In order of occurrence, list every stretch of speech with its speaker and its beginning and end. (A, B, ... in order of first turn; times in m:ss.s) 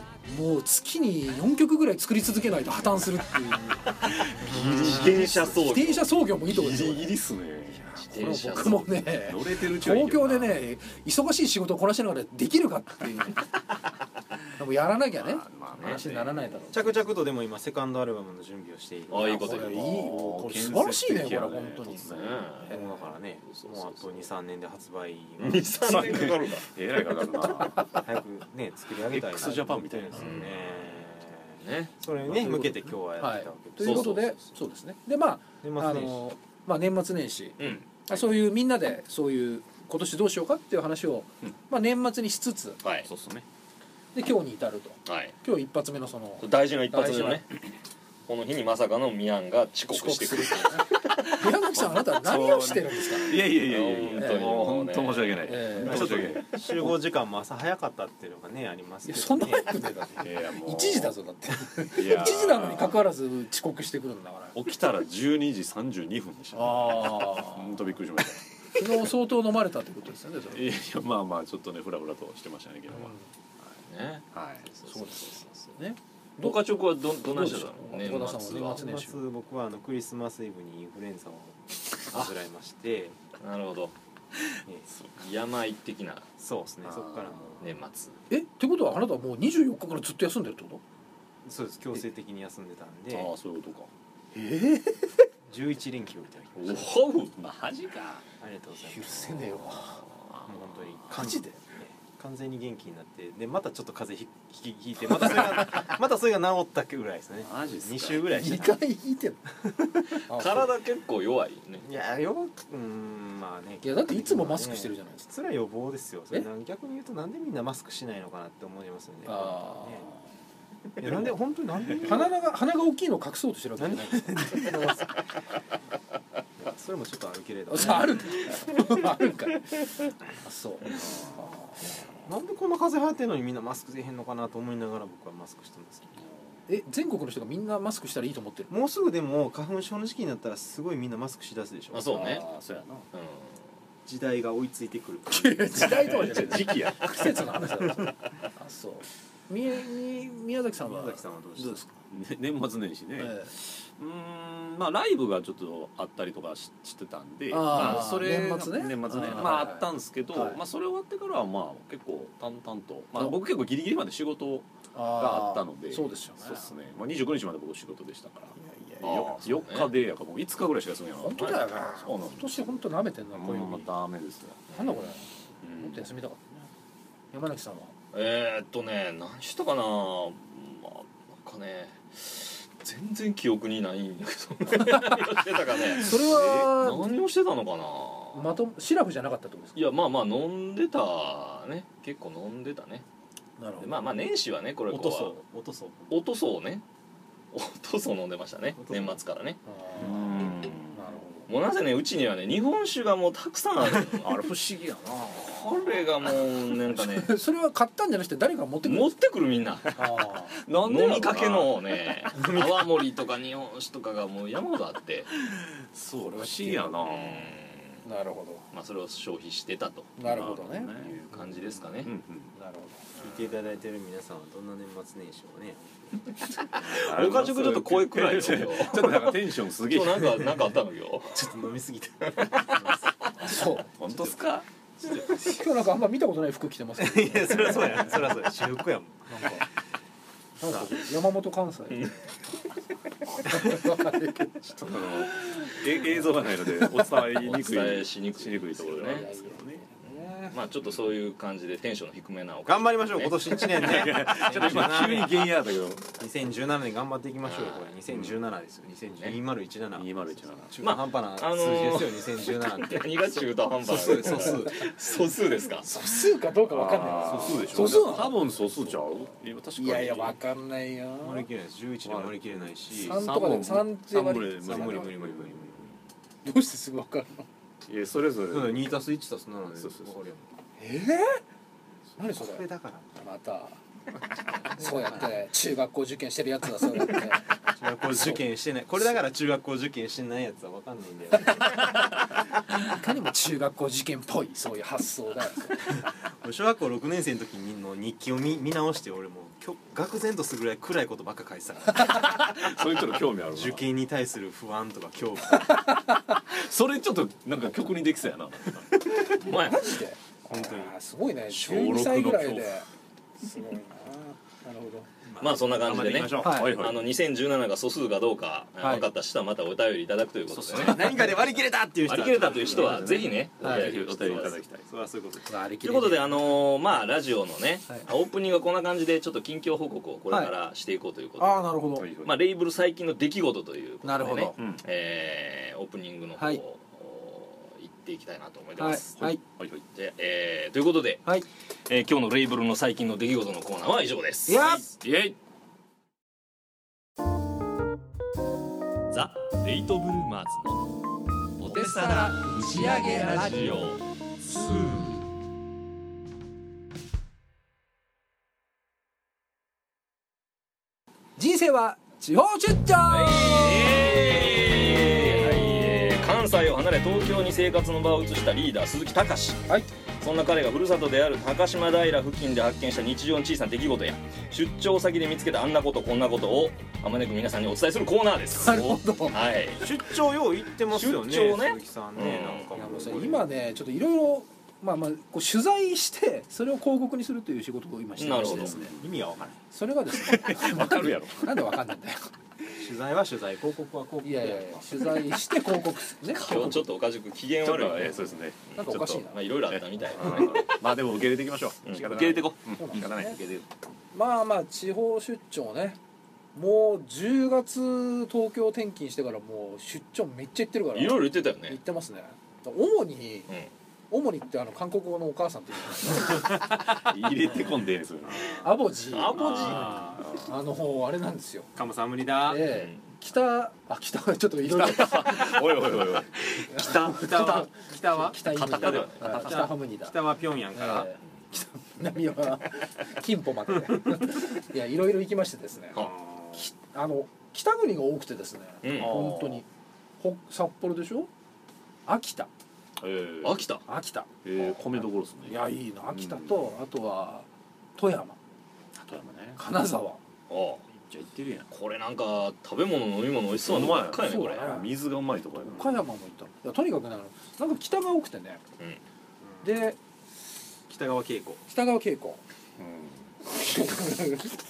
0:00.3-0:07.2 A
0:04.3-0:06.1 B
0:04.5-0:05.0 C
0:06.5-0:08.0 D
0:07.7-0:13.5 A
0:08.1-0:08.8 B
0:08.5-0:10.6 D
0:14.6-0:16.8 A
0:15.2-0:16.7 D
0:15.8-0:16.0 B
0:16.7-0:20.0 C
0:19.1-0:20.1 B
0:19.3-0:22.1 A
0:19.8-0:22.8 D
0:22.1-0:22.9 B
0:22.6-0:26.0 C
0:23.4-0:24.3 B
0:25.4-0:26.8 B
0:25.8-0:28.0 D
0:28.0-0:34.1 C
0:29.0-0:31.0 D
0:30.1-0:30.5 B
0:31.6-0:31.9 B
0:32.2-0:32.7 D
0:33.2-0:42.8 A
0:33.8-0:34.4 B
0:35.6-0:36.2 C
0:37.6-0:37.9 B
0:42.8-0:43.1 B
0:43.0-0:43.4 D
0:44.1-0:47.4 A
0:45.0-0:45.3 B
0:46.4-0:47.5 B
0:48.3-0:51.3 B
0:49.9-0:53.6 A
0:51.7-0:57.0 D
0:53.5-0:55.9 B
0:54.2-0:54.5 A
0:55.4-0:56.2 A
0:55.8-0:59.8 C
0:59.0-1:04.6 A
1:00.2-1:01.1 D
1:01.9-1:03.0 D
1:04.5-1:09.0 D
1:06.5-1:07.8 A
1:08.7-1:10.7 A
1:10.5-1:13.1 D
1:12.9-1:13.2 A
1:13.9-1:15.8 B
1:14.3-1:14.6 D
1:14.9-1:16.6 A
1:16.4-1:18.8 B
1:17.2-1:19.2 A
1:18.6-1:23.2 C
1:23.4-1:23.9 B
1:24.9-1:25.2 D
1:25.2-1:26.2 B
1:26.4-1:27.7 C
1:26.8-1:27.5 D
1:27.6-1:28.2 B
1:28.3-1:30.8 A
1:31.4-1:33.3 C
1:33.1-1:33.9 D
1:34.3-1:34.9 A
1:35.5-1:36.9 C
1:36.6-1:37.3 B
1:37.3-1:38.2 D
1:38.4-1:39.6 C
1:38.8-1:40.0 A
1:40.3-1:41.0 D
1:40.4-1:48.8 C
1:41.1-1:41.6 A
1:47.4-1:48.6 D
1:48.3-1:49.6 A
1:50.3-1:50.7 A
1:50.3-1:51.8 B
1:51.8-2:00.1 C
1:53.8-1:55.2 A
1:59.2-2:00.1 A
2:01.0-2:02.4 C
2:02.0-2:04.7 A
2:03.8-2:05.2 C
2:06.6-2:08.5 C
2:07.7-2:09.7 A
2:10.4-2:11.8 A
2:12.2-2:16.2 C
2:16.7-2:18.7 A
2:18.7-2:22.1 C
2:21.9-2:22.4 B
2:22.0-2:23.0 D
2:23.1-2:23.6 B
2:24.0-2:26.6 C
2:25.3-2:31.8 A
2:25.8-2:27.4 D
2:27.6-2:28.1 C
2:30.8-2:31.8 C
2:31.6-2:52.8 D
2:33.2-2:33.5 A
2:37.5-2:40.6 A
2:44.9-2:46.6 A
2:48.6-2:49.3 A
2:49.0-2:49.9 B
2:51.2-2:53.9 A
2:53.3-2:54.6 D
2:54.7-2:55.1 B
2:54.7-2:56.7 A
2:55.6-2:56.0 D
2:57.3-2:57.9 A
2:58.1-3:08.5 B
3:04.7-3:05.3 A
3:06.0-3:07.1 A
3:06.2-3:06.7 D
3:08.3-3:09.9 A
3:09.7-3:13.0 B
3:13.6-3:14.0 A
3:13.8-3:15.4 B
3:14.9-3:16.2 C
3:16.1-3:16.8 B
3:17.5-3:20.8 B
3:18.8-3:19.2 C
3:19.6-3:20.3 A
3:20.0-3:21.1 D
3:20.9-3:21.5 A
3:21.5-3:24.4 B
3:24.2-3:25.6 D
3:25.4-3:27.3 B
3:26.9-3:29.1 A
3:28.8-3:29.9 B
3:29.9-3:30.6 A
3:30.6-3:32.3 D
3:30.8-3:35.3 B
3:32.3-3:32.9 C
3:35.4-3:37.6 D
3:36.6-3:36.9 A
3:37.0-3:38.0 B
3:38.0-3:38.6 A
3:38.7-3:40.1 B
3:40.2-3:40.9 A
3:40.2-3:42.5 D
3:40.9-3:42.1 B
3:42.5-3:43.0 A
3:43.2-3:43.5 B
3:43.2-3:47.0 C
3:46.8-3:50.7 D
3:46.9-3:51.5 B
3:51.3-3:55.6 C
3:52.2-3:52.7 B
3:53.4-3:53.9 A
3:54.0-3:54.6 D
3:55.3-3:58.2 A
3:57.0-3:59.2 C
3:59.3-3:59.7 A
4:00.6-4:02.1 A
4:00.6-4:00.9 C
4:03.4-4:05.2 A
4:04.8-4:09.8 D
4:07.3-4:09.2 B
4:09.1-4:10.6 A
4:10.4-4:14.8 B
4:12.6-4:15.5 C
4:13.6-4:16.1 D
4:16.2-4:24.9 C
4:17.4-4:17.9 B
4:18.1-4:18.4 D
4:19.9-4:20.8 D
4:20.8-4:25.9 B
4:25.8-4:28.4 A
4:26.7-4:30.4 D
4:27.2-4:28.1 C
4:29.8-4:31.5 A
4:31.2-4:33.2 C
4:32.0-4:35.9 D
4:33.0-4:34.9 A
4:34.5-4:35.9 C
4:36.4-4:37.4 A
4:37.9-4:39.0 D
4:38.5-4:40.5 C
4:39.8-4:40.2 D
4:40.8-4:41.4 A
4:42.2-4:43.8 A
4:42.2-4:43.1 C
4:44.7-4:47.5 A
4:47.7-4:51.8 C
4:48.1-4:48.4 A
4:52.8-4:55.9 A
4:56.0-5:02.5 C
5:02.1-5:03.8 D
5:03.5-5:06.0 C
5:05.7-5:06.2 A
5:06.3-5:09.0 D
5:09.4-5:09.9 B
5:09.5-5:12.9 A
5:10.5-5:10.9 C
5:11.5-5:12.7 D
5:13.4-5:15.1 A
5:15.2-5:16.6 C
5:15.4-5:21.4 B
5:16.1-5:17.1 D
5:16.4-5:16.8 A
5:18.8-5:19.1 A
5:20.5-5:21.4 D
5:20.7-5:25.5 C
5:22.1-5:24.6 B
5:22.5-5:24.8 D
5:23.6-5:23.9 A
5:25.5-5:26.5 A
5:25.8-5:31.7 B
5:31.4-5:32.1 A
5:32.0-5:32.4 D
5:32.2-5:39.1 B
5:34.0-5:34.6 A
5:34.6-5:34.8 D
5:36.4-5:36.6 A
5:38.8-5:39.4 A
5:39.1-5:39.8 D
5:39.9-5:41.3 B
5:41.9-5:45.0 B
5:44.4-5:44.8 A
5:45.0-5:45.4 D
5:49.1-5:50.9 B
5:51.6-5:54.0 B
5:51.6-5:55.2 A
6:01.4-6:04.1 A
6:03.1-6:09.6 B
6:04.0-6:04.9 D
6:05.1-6:05.9 A
6:10.2-6:19.9 B
6:18.6-6:19.4 A
6:19.8-6:23.6 C
6:20.9-6:22.7 B
6:22.7-6:28.9 A
6:28.2-6:28.8 B
6:28.4-6:29.3 D
6:29.0-6:29.6 C
6:29.7-6:32.3 A
6:30.1-6:31.7 D
6:32.8-6:35.1 C
6:34.2-6:36.8 A
6:36.3-6:38.2 B
6:36.4-6:36.8 D
6:37.6-6:43.7 D
6:38.7-6:39.4 A
6:38.9-6:40.8 B
6:41.8-6:42.6 B
6:42.8-6:43.4 A
6:44.1-6:46.0 A
6:46.5-6:53.5 A
6:50.9-6:51.8 B
6:54.1-6:56.4 A
6:56.9-6:58.6 D
6:58.3-6:58.7 C
6:58.6-7:01.7 A
6:59.1-7:00.1 B
6:59.3-7:00.2 C
7:00.1-7:00.5 D
7:01.8-7:02.7 C
7:02.4-7:05.8 A
7:02.7-7:03.0 B
7:04.6-7:06.4 D
7:06.5-7:08.4 C
7:06.7-7:10.2 A
7:08.6-7:09.8 D
7:08.7-7:09.3 B
7:09.2-7:11.1 C
7:10.7-7:19.7 A
7:16.0-7:16.6 C
7:18.8-7:19.2 B
7:18.9-7:19.6 D
7:20.2-7:21.3 A
7:22.0-7:22.5 A
7:23.0-7:23.7 D
7:23.4-7:23.8 B
7:23.8-7:28.4 A
7:24.4-7:26.8 D
7:28.9-7:29.6 D
7:29.6-7:30.2 A
7:30.5-7:30.8 B
7:31.1-7:31.7 D
7:31.7-7:34.8 B
7:33.6-7:36.0 D
7:34.2-7:34.9 A
7:35.6-7:38.6 A
7:39.4-7:39.8 C
7:39.6-7:40.0 A
7:40.9-7:41.6 C
7:41.7-7:42.4 A
7:42.8-7:43.3 D
7:43.4-7:44.6 A